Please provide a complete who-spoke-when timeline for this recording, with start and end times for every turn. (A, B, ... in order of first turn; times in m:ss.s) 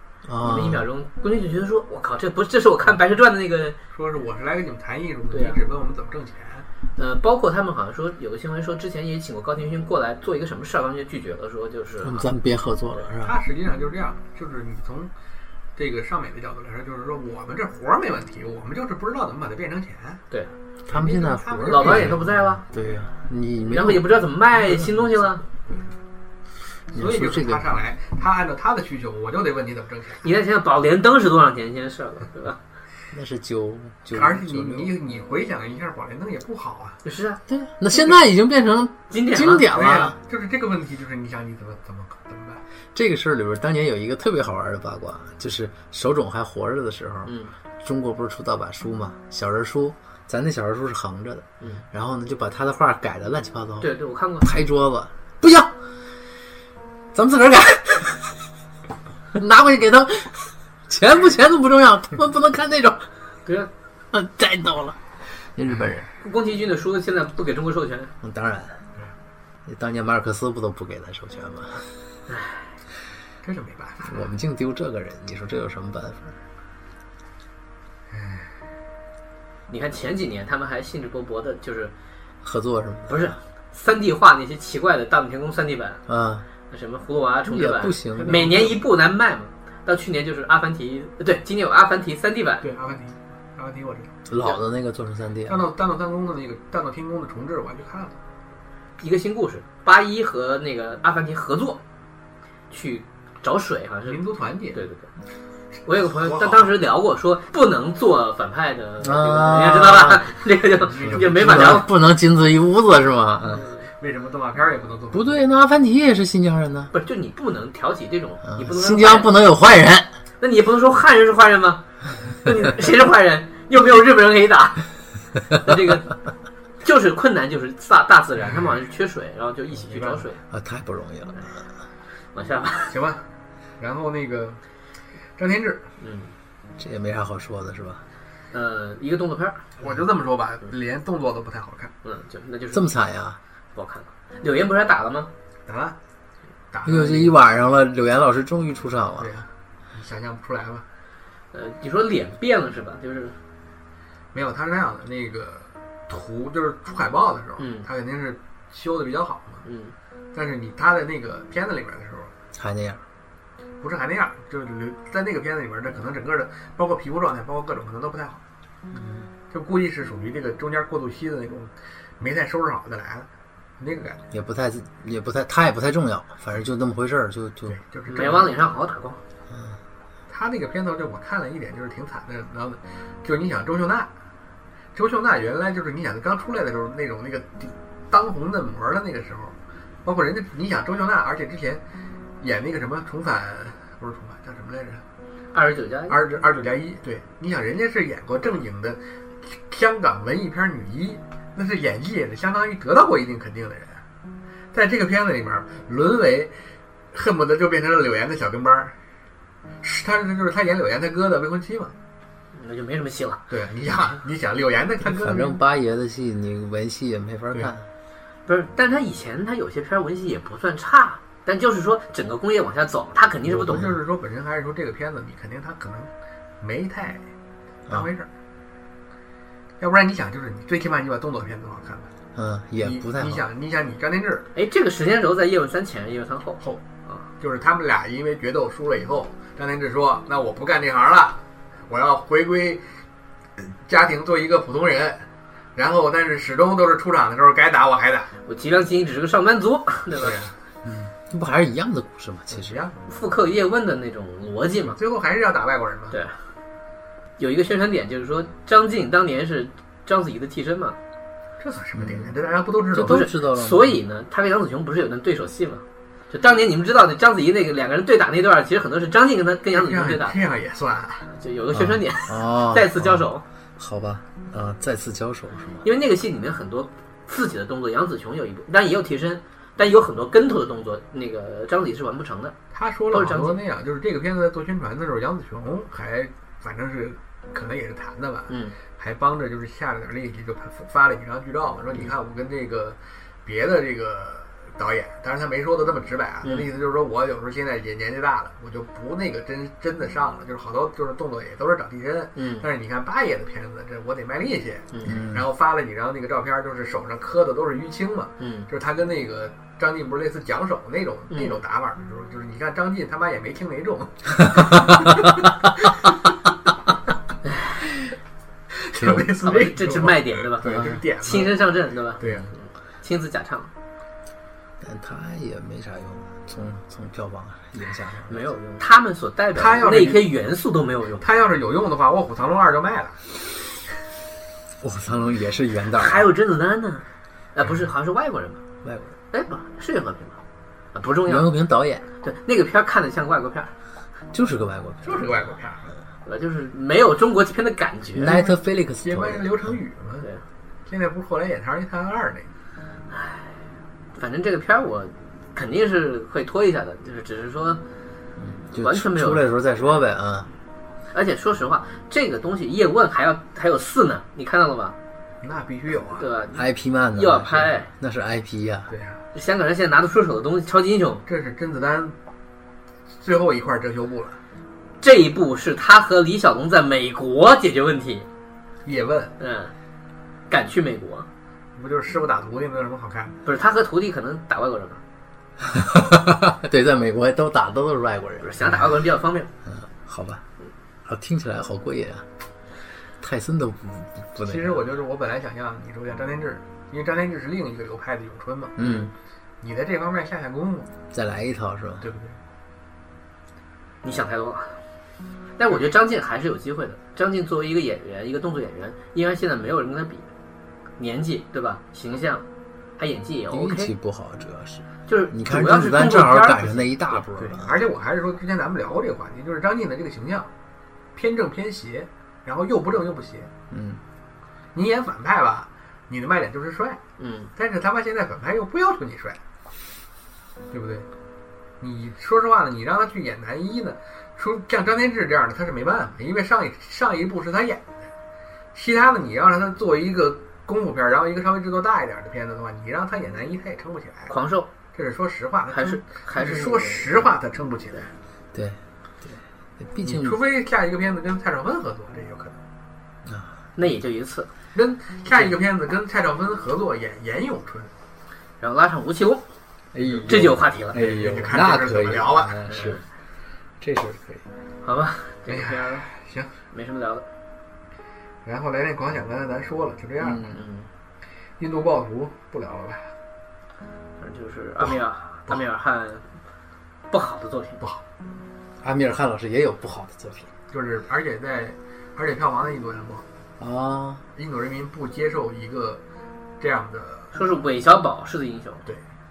0:00.2-0:00.9 A
0:00.4-0:03.8 B
0:03.9-0:06.7 C
0:05.3-0:05.6 B
0:07.0-0:12.3 B
0:12.0-0:13.4 A
0:13.2-0:15.1 C
0:15.8-0:20.2 C
0:20.9-0:25.2 A
0:20.9-0:22.3 C
0:21.7-0:22.6 B
0:23.6-0:25.4 B
0:26.9-0:27.7 A
0:26.9-0:30.2 C
0:30.2-0:32.6 B
0:33.1-0:34.9 A
0:34.1-0:37.0 C
0:37.0-0:37.4 B
0:37.5-0:40.2 A
0:39.1-0:39.7 B
0:39.7-0:42.6 C
0:43.0-0:55.8 A
0:47.3-0:47.5 B
0:53.8-0:54.5 B
0:57.1-0:58.2 A
0:59.3-1:03.1 A
1:04.1-1:06.1 A
1:06.2-1:08.1 B
1:08.2-1:08.8 A
1:09.7-1:11.9 A
1:12.3-1:12.6 B
1:13.4-1:14.2 C
1:14.0-1:16.4 A
1:18.1-1:18.5 C
1:19.7-1:21.9 B
1:22.4-1:23.3 A
1:23.1-1:26.0 B
1:26.1-1:26.5 A
1:26.7-1:32.6 B
1:27.5-1:28.8 A
1:32.6-1:34.1 C
1:34.3-1:35.7 A
1:35.5-1:38.1 C
1:39.0-1:41.8 B
1:42.7-1:45.1 B
1:44.1-1:44.8 C
1:45.9-1:51.9 B
1:46.1-1:46.7 C
1:49.0-1:50.3 A
1:50.9-1:51.8 C
1:51.0-1:53.6 A
1:54.0-1:55.4 C
1:55.1-1:56.9 A
1:56.9-1:59.3 B
1:58.5-2:00.2 A
2:00.4-2:01.8 B
2:02.4-2:04.9 B
2:05.5-2:06.2 B
2:06.8-2:10.4 B
2:09.8-2:10.2 C
2:10.5-2:11.6 A
2:12.3-2:13.0 B
2:12.9-2:13.2 C
2:13.8-2:14.6 C
2:15.4-2:15.8 C
2:16.0-2:16.3 B
2:16.8-2:18.0 A
2:18.5-2:19.6 B
2:19.8-2:21.9 C
2:22.0-2:22.9 B
2:22.7-2:23.4 A
2:23.8-2:25.3 B
2:25.7-2:26.0 C
2:26.7-2:27.4 C
2:26.8-2:29.3 A
2:29.2-2:30.8 C
2:31.5-2:33.4 B
2:34.3-2:39.6 C
2:37.6-2:37.9 B
2:39.6-2:39.9 B
2:40.3-2:42.3 C
2:42.6-2:43.0 A
2:43.8-2:48.4 C
2:48.9-2:49.3 A
2:49.5-2:53.3 C
2:53.8-2:54.2 C
2:54.3-2:57.8 A
2:57.7-2:58.6 C
2:58.1-2:59.2 B
2:59.5-2:59.8 A
3:00.3-3:04.1 C
3:04.9-3:11.8 C
3:12.4-3:15.0 C
3:15.5-3:16.2 B
3:16.1-3:24.0 C
3:24.7-3:26.5 C
3:27.1-3:29.0 C
3:29.8-3:31.9 C
3:32.6-3:33.4 B
3:33.5-3:35.6 C
3:35.0-3:37.9 A
3:38.5-3:43.9 B
3:43.5-3:43.9 A
3:43.6-3:46.1 C
3:46.6-3:47.2 C
3:47.9-3:48.3 C
3:49.8-3:52.1 C
3:52.4-3:53.4 A
3:52.8-3:54.5 C
3:54.6-3:57.2 B
3:57.4-4:02.8 C
4:03.6-4:08.3 C
4:08.5-4:10.4 B
4:10.1-4:10.5 C
4:10.8-4:12.8 A
4:12.5-4:13.0 C
4:13.1-4:15.0 B
4:14.9-4:16.2 C
4:16.1-4:16.4 B
4:17.4-4:21.0 B
4:21.6-4:23.3 C
4:22.0-4:22.4 A
4:22.9-4:24.0 A
4:23.0-4:30.4 B
4:29.7-4:31.3 C
4:31.3-4:33.4 B
4:31.7-4:35.9 A
4:35.8-4:42.6 B
4:42.7-5:16.1 C
4:43.1-4:43.6 B
4:48.5-4:48.8 B
5:02.4-5:02.6 B
5:04.9-5:05.2 B
5:05.0-5:05.5 A
5:08.4-5:08.7 B
5:11.3-5:11.6 B
5:14.6-5:14.9 A
5:18.8-5:22.5 C
5:19.0-5:19.3 A
5:19.4-5:22.2 B
5:20.6-5:21.0 A
5:23.0-5:23.7 B
5:24.8-5:28.6 A
5:28.3-5:31.2 B
5:29.6-5:30.4 C
5:31.2-5:33.2 C
5:34.8-5:36.3 A
5:36.0-5:38.6 B
5:38.8-5:39.2 A
5:39.3-5:40.4 B
5:40.9-5:41.6 B
5:41.2-5:42.1 A
5:42.2-5:43.7 B
5:44.3-5:45.4 A
5:45.0-5:45.9 C
5:46.3-5:48.4 B
5:48.2-5:49.8 A
5:48.2-5:50.3 C
5:50.9-5:52.5 C
5:53.1-5:53.4 B
5:54.2-5:57.8 B
5:58.4-6:00.5 A
5:58.8-5:59.5 B
6:01.1-6:05.0 B
6:05.4-6:06.3 C
6:06.2-6:07.9 B
6:06.5-6:08.9 A
6:08.9-6:09.2 C
6:09.3-6:11.2 B
6:11.3-6:12.2 C
6:13.2-6:14.4 C
6:15.0-6:18.3 B
6:18.8-6:19.4 C
6:19.4-6:19.7 B
6:20.5-6:21.3 B
6:21.8-6:23.4 C
6:23.4-6:25.0 B
6:25.6-6:29.0 A
6:28.4-6:29.5 B
6:29.6-6:30.4 A
6:31.0-6:32.3 A
6:33.2-6:34.8 A
6:34.5-6:39.0 C
6:38.8-6:39.1 A
6:39.6-6:40.9 C
6:41.1-6:42.1 A
6:42.0-6:42.4 C
6:44.0-6:44.8 B
6:45.6-6:50.3 B
6:51.0-6:52.4 B
6:53.0-6:53.9 B
6:53.5-6:57.8 A
6:55.1-6:56.9 B
6:57.4-7:00.5 C
7:01.2-7:03.5 C
7:03.7-7:04.0 A
7:04.7-7:07.0 C
7:07.2-7:07.5 B
7:07.6-7:09.4 C
7:10.7-7:11.1 C
7:11.8-7:18.0 C
7:18.7-7:24.3 C
7:24.3-7:24.7 B
7:24.9-7:28.1 C
7:25.7-7:27.3 B
7:28.5-7:30.4 A
7:30.0-7:32.6 C
7:33.3-7:33.5 A
7:33.8-7:34.5 B
7:34.8-7:37.9 C
7:38.6-7:39.4 B
7:39.9-7:43.0 A
7:40.1-7:40.3 C
7:40.3-7:41.1 B
7:40.9-7:43.0 C
7:42.7-7:43.0 B
7:43.8-7:44.4 A
7:44.8-7:46.1 B
7:45.5-7:46.5 C
7:46.7-7:47.3 B
7:48.4-7:50.5 C
7:50.2-7:50.6 A
7:50.5-7:50.9 B
7:51.6-7:53.1 C
7:54.2-7:56.3 B
7:57.1-7:57.8 B
7:58.8-8:00.5 A
8:00.7-8:03.2 C
8:03.6-8:04.2 A
8:04.4-8:06.0 C
8:06.6-8:07.5 C
8:07.3-8:08.8 B